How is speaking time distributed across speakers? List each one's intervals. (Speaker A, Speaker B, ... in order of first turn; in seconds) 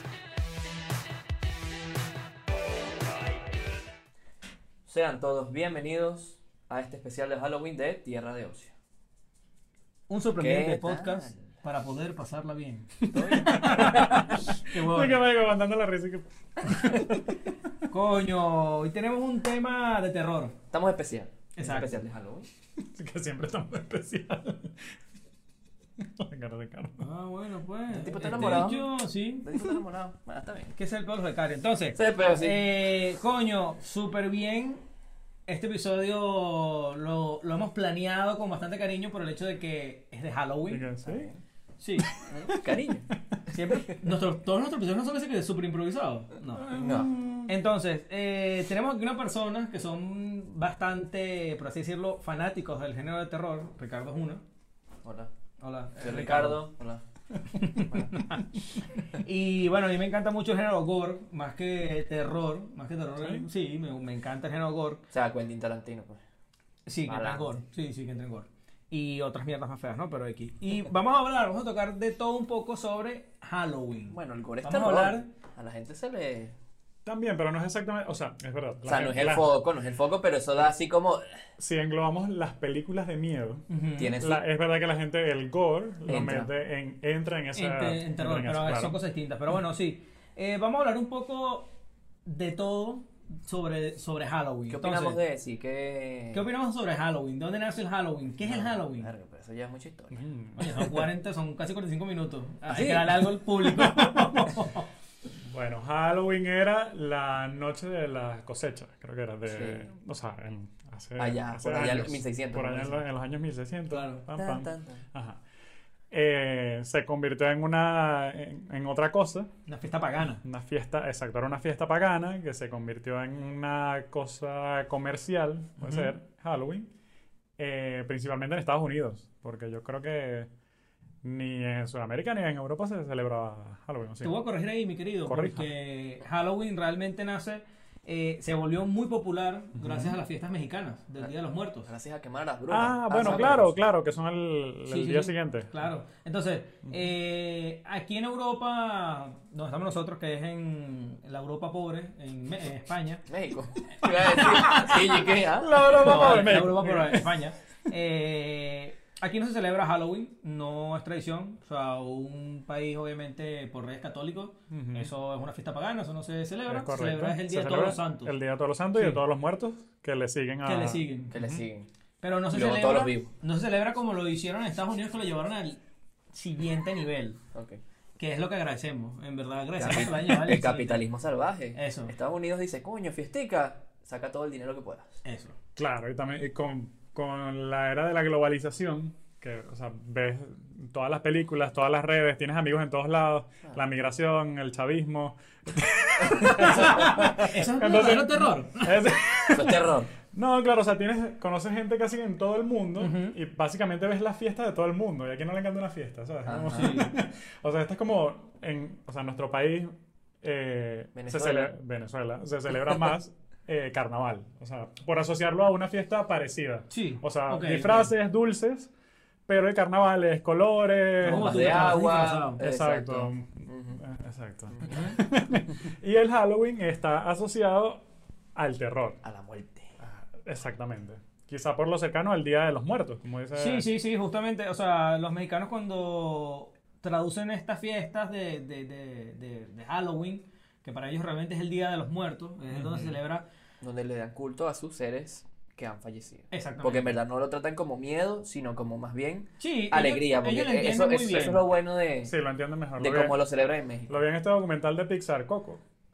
Speaker A: 4.9-8.7, 10.4-11.3, 13.1-14.2, 20.7-22.5, 27.9-28.9, 29.4-30.7, 31.9-32.6, 41.0-41.4, 42.2-43.1, 46.7-47.1, 55.0-55.3, 56.0-57.0, 57.6-58.3, 65.1-66.2, 67.0-67.5, 74.1-76.5, 78.8-81.2, 84.0-84.4, 86.1-86.5, 94.7-96.5, 98.4-100.2, 102.7-103.2, 109.5-109.9, 111.2-113.0, 113.9-115.0, 141.9-143.8, 153.3-156.5, 171.3-171.9, 172.5-173.3, 177.5-177.8, 179.8-185.1, 196.2-197.4, 199.5-200.1, 206.4-207.0, 211.1-211.7, 221.2-224.0, 224.8-225.2, 229.2-230.1, 243.8-252.3, 253.0-254.1
Speaker B: 10.1-15.2, 17.9-20.6, 21.6-22.0, 27.0-29.5, 30.7-34.8, 35.5-40.8, 41.8-42.1, 43.5-46.8, 47.5-54.4, 55.6-56.6, 57.5-65.0, 66.9-75.3, 83.7-84.2, 87.5-91.7, 92.2-95.2, 96.3-99.1, 100.6-104.9, 119.7-120.4, 125.8-126.1, 134.2-141.9, 144.9-153.2, 154.0-168.3, 168.9-169.2, 170.6-171.3, 172.2-175.8, 176.3-177.4, 178.2-181.0, 181.7-182.1, 185.2-185.6, 196.5-198.9, 203.0-203.3, 206.5-207.2, 216.9-218.1, 221.2-222.6, 233.5-243.4, 246.5-247.2, 249.6-251.6
Speaker C: 13.1-17.3, 22.8-25.0, 26.0-27.1, 40.7-41.3, 42.0-43.4, 46.5-47.5, 63.2-63.5, 77.0-79.5, 81.6-83.6, 84.2-89.0, 100.1-101.0, 103.6-104.3, 105.4-115.4, 116.1-119.5, 120.4-126.9, 127.6-130.5, 131.2-134.3, 135.2-135.7, 139.8-140.2, 142.7-145.8, 155.6-157.3, 164.7-165.1, 166.7-171.6, 185.8-209.9, 210.4-218.9, 219.5-222.0, 222.6-228.0, 228.5-229.2, 230.4-233.9, 242.7-243.1, 252.2-253.3, 254.1-255.8